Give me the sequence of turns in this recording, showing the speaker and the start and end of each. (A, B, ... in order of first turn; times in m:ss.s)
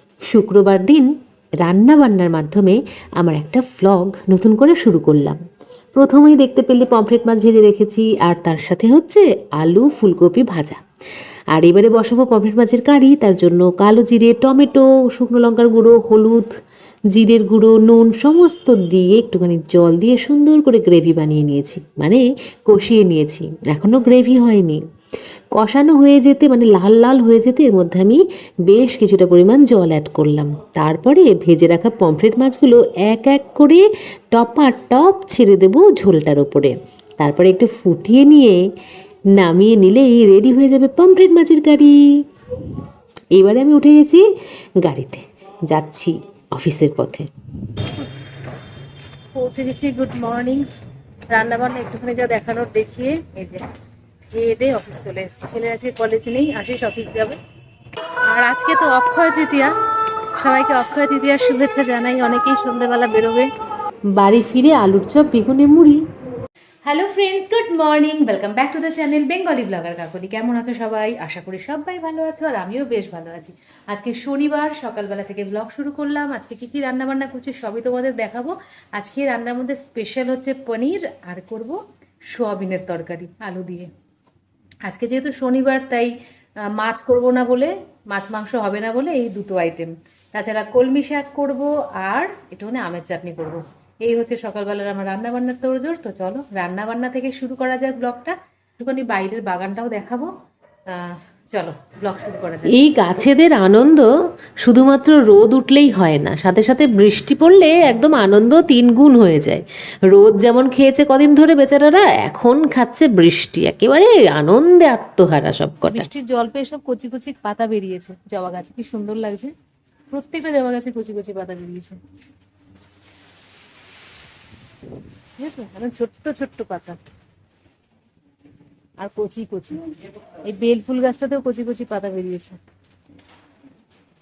0:00.3-0:05.4 A
0:06.0-0:10.8 A
0:11.5-0:16.5 A
0:17.1-0:24.8 A
0:25.6-0:38.6 A
0:39.4-0:42.0 A
0:43.3-0:44.2 A
0:44.8-0:47.3 A
0:49.4-0:50.6 B
0:51.3-0:53.7 B
0:54.3-0:57.4 B
0:58.3-0:59.7 B
1:00.4-1:03.5 B
1:04.1-1:06.0 A
1:06.8-1:21.8 B
1:22.3-1:23.9 B
1:24.9-1:26.1 B
1:26.7-1:40.3 B
1:40.9-1:42.8 B
1:42.7-1:44.1 A
1:44.6-1:56.1 A
1:55.9-1:59.5 B
2:00.1-2:02.0 B
2:05.4-2:07.0 B
2:09.0-2:09.8 B
2:10.5-2:12.6 B